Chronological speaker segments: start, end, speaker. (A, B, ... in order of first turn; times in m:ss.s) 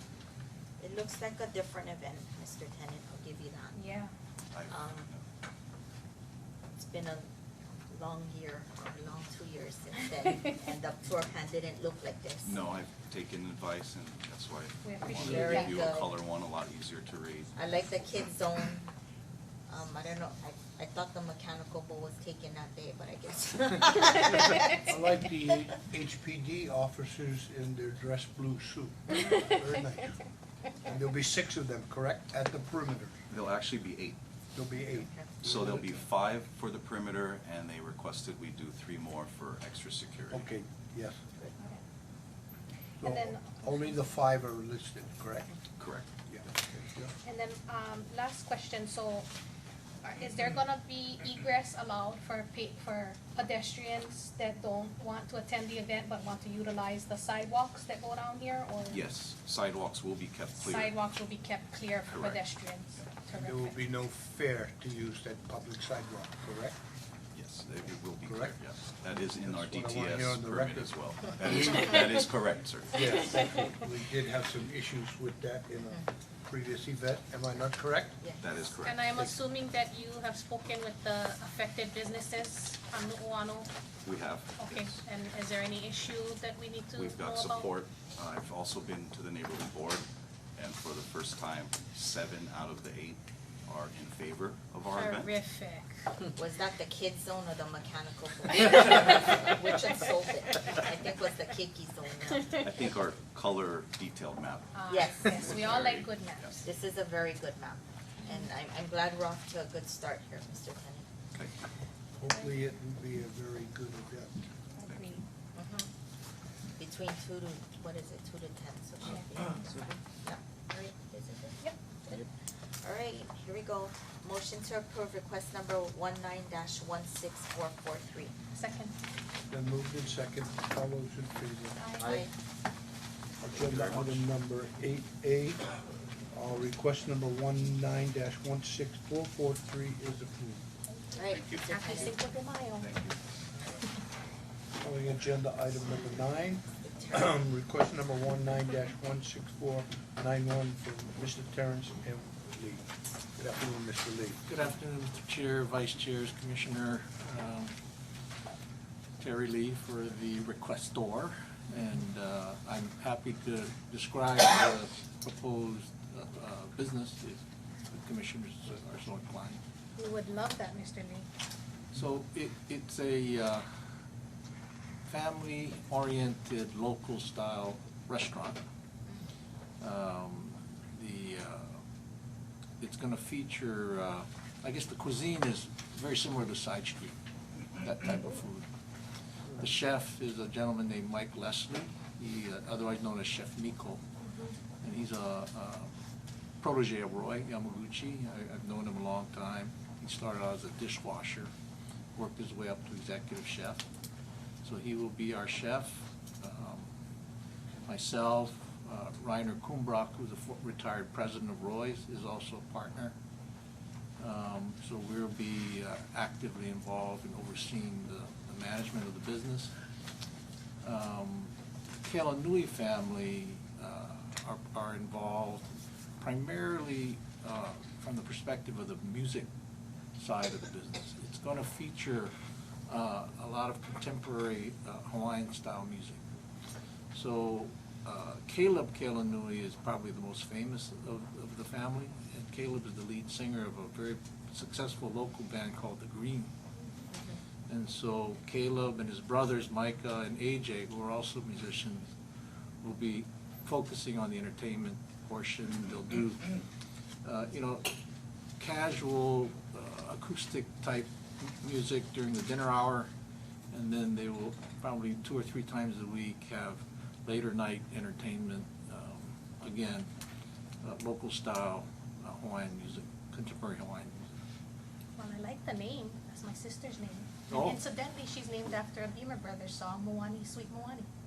0:00.8-0:03.8 A
0:03.7-0:04.1 B
0:04.5-0:05.2 C
0:04.7-0:05.1 A
0:06.8-0:07.3 A
0:07.9-0:12.6 A
0:12.4-0:17.6 C
0:14.8-0:15.8 B
0:15.2-0:16.1 A
0:17.6-0:18.9 A
0:19.7-0:24.8 A
0:24.7-0:30.2 D
0:30.8-0:33.2 D
0:33.3-0:34.2 C
0:34.5-0:35.8 D
0:34.7-0:35.7 A
0:35.4-0:40.5 C
0:40.3-0:41.2 D
0:43.0-0:44.0 B
0:43.0-0:45.5 D
0:45.8-0:46.1 C
0:46.3-0:47.1 D
0:47.2-0:49.3 B
0:50.0-0:59.0 B
0:58.9-1:01.0 C
1:00.6-1:03.8 B
1:02.1-1:02.4 C
1:03.3-1:06.8 D
1:07.3-1:13.2 C
1:08.2-1:08.6 D
1:09.3-1:10.9 D
1:12.9-1:18.2 D
1:18.4-1:19.3 C
1:18.8-1:23.7 B
1:24.0-1:25.0 C
1:24.6-1:27.7 B
1:26.9-1:35.3 C
1:34.9-1:36.1 B
1:36.3-1:42.6 A
1:42.5-1:46.5 C
1:44.8-1:46.6 B
1:44.9-1:45.5 A
1:46.6-1:51.1 A
1:52.2-1:54.4 D
1:54.8-1:55.2 B
1:55.5-1:55.9 A
1:56.8-2:02.3 A
2:02.8-2:08.3 A
2:08.5-2:08.9 B
2:09.5-2:11.9 D
2:11.8-2:12.2 B
2:12.0-2:12.3 A
2:13.4-2:15.7 D
2:13.6-2:14.2 C
2:16.3-2:20.6 D
2:21.1-2:22.2 A
2:21.6-2:22.9 B
2:22.8-2:23.2 C
2:24.8-2:34.4 D
2:26.8-2:27.4 A
2:34.5-2:37.8 E
2:39.2-2:49.6 E
2:50.0-2:51.2 B
2:51.9-2:53.7 E
2:55.1-2:58.6 E
2:59.8-3:01.8 E
3:02.8-3:07.2 E
3:07.8-3:08.7 E
3:09.6-3:14.0 E
3:14.2-3:14.5 B
3:14.8-3:15.9 E
3:16.6-3:21.5 E
3:22.2-3:23.8 E
3:24.6-3:26.9 E
3:27.9-3:33.2 E
3:34.2-3:39.7 E
3:40.8-3:49.5 E
3:50.2-3:52.3 E
3:52.9-3:56.2 E
3:57.1-4:06.5 E
4:07.1-4:07.4 A
4:07.7-4:12.1 E
4:12.8-4:16.6 E
4:17.2-4:18.0 E
4:18.6-4:23.1 E
4:23.7-4:30.1 E
4:30.8-4:34.3 E
4:35.2-4:41.1 B
4:37.5-4:37.8 E